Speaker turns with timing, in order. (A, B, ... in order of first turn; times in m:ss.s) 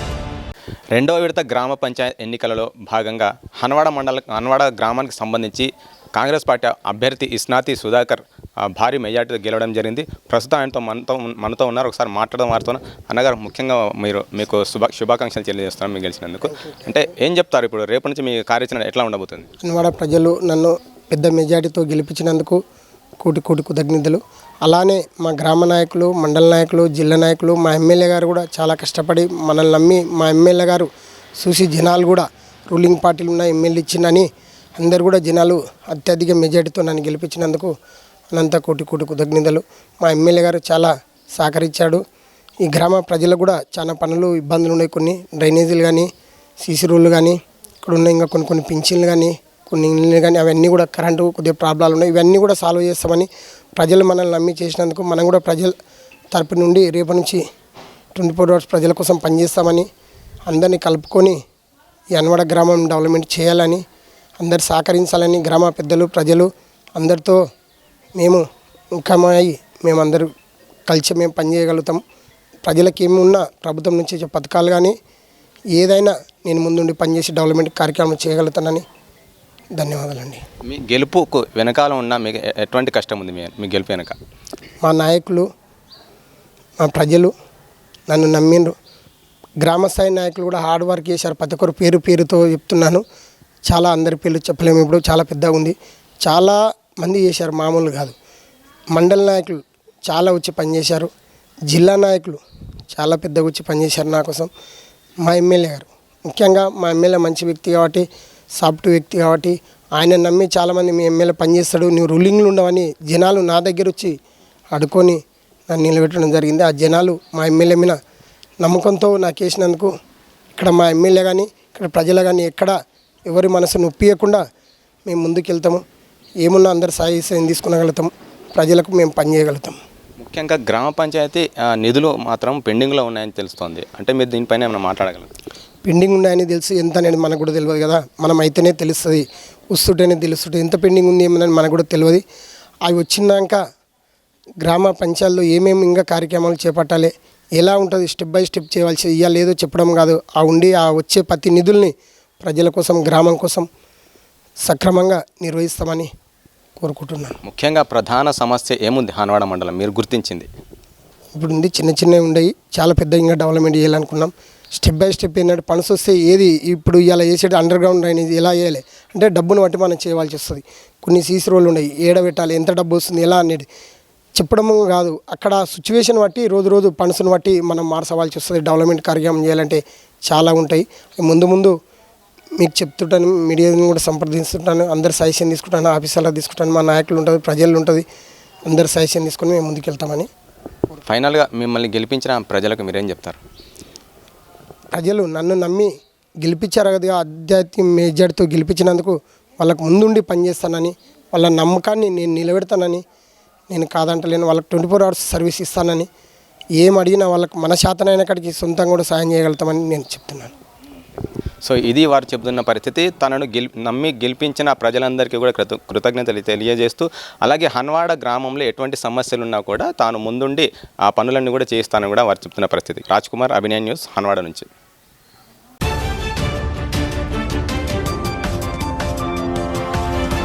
0:00.9-0:19.5 A
0:19.6-0:22.6 B
0:23.2-0:37.7 B
0:38.3-0:42.0 B
0:42.6-0:46.1 B
0:46.6-0:55.7 B
0:56.3-0:57.4 B
0:58.1-0:59.9 B
1:00.5-1:01.4 B
1:02.1-1:03.8 B
1:04.4-1:07.4 B
1:08.2-1:08.4 B
1:09.0-1:10.3 B
1:10.8-1:12.0 B
1:12.6-1:15.0 B
1:15.7-1:18.8 B
1:19.8-1:20.4 B
1:20.6-1:24.2 A
1:24.8-1:25.5 B
1:26.8-1:27.3 B
1:28.1-1:28.7 B
1:29.6-1:33.0 B
1:33.7-1:38.2 B
1:38.9-1:41.1 B
1:41.7-1:42.4 B
1:42.9-1:44.5 B
1:45.2-1:48.0 B
1:48.6-1:54.1 B
1:54.7-1:58.0 B
1:58.6-1:59.9 B
2:00.5-2:02.7 B
2:03.2-2:04.4 B
2:05.0-2:05.8 B
2:06.4-2:09.8 B
2:10.2-2:15.3 A
2:15.8-2:22.2 B
2:22.9-2:23.6 B
2:24.6-2:33.7 B
2:34.6-2:36.1 B
2:36.8-2:37.4 B
2:37.4-2:40.5 A
2:41.4-2:53.7 B
2:54.4-3:01.7 B
3:02.6-3:08.0 B
3:08.7-3:10.3 B
3:11.0-3:13.4 A
3:14.9-3:15.9 B
3:16.4-3:23.0 B
3:23.7-3:26.1 B
3:26.8-3:30.5 B
3:31.6-3:44.7 A